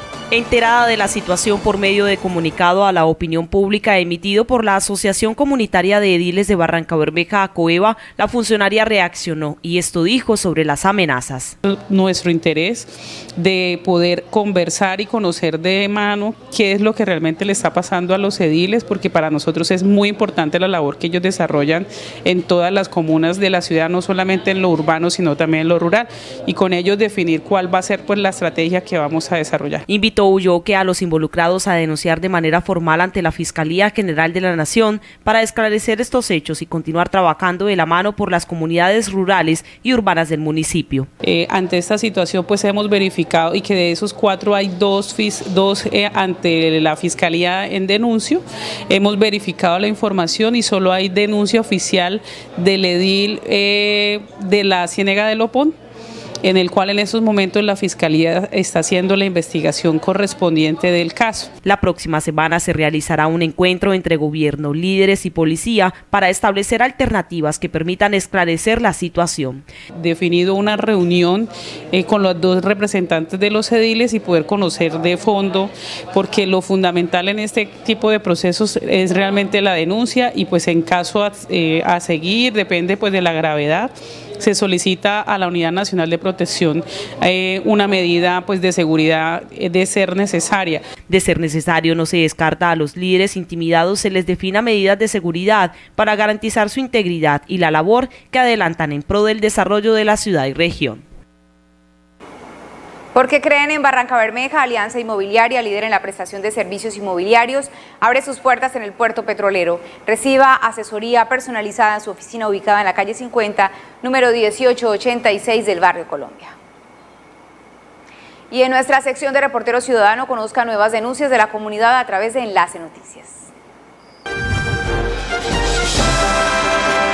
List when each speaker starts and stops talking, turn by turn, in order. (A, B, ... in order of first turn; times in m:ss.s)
0:00.3-0:11.5 A
0:11.6-0:29.8 B
0:29.9-0:41.1 A
0:41.2-0:55.7 B
0:56.4-1:01.5 B
1:01.6-1:09.6 A
1:10.0-1:30.9 B
1:31.1-1:41.0 A
1:43.1-1:56.5 C
1:58.5-2:03.5 C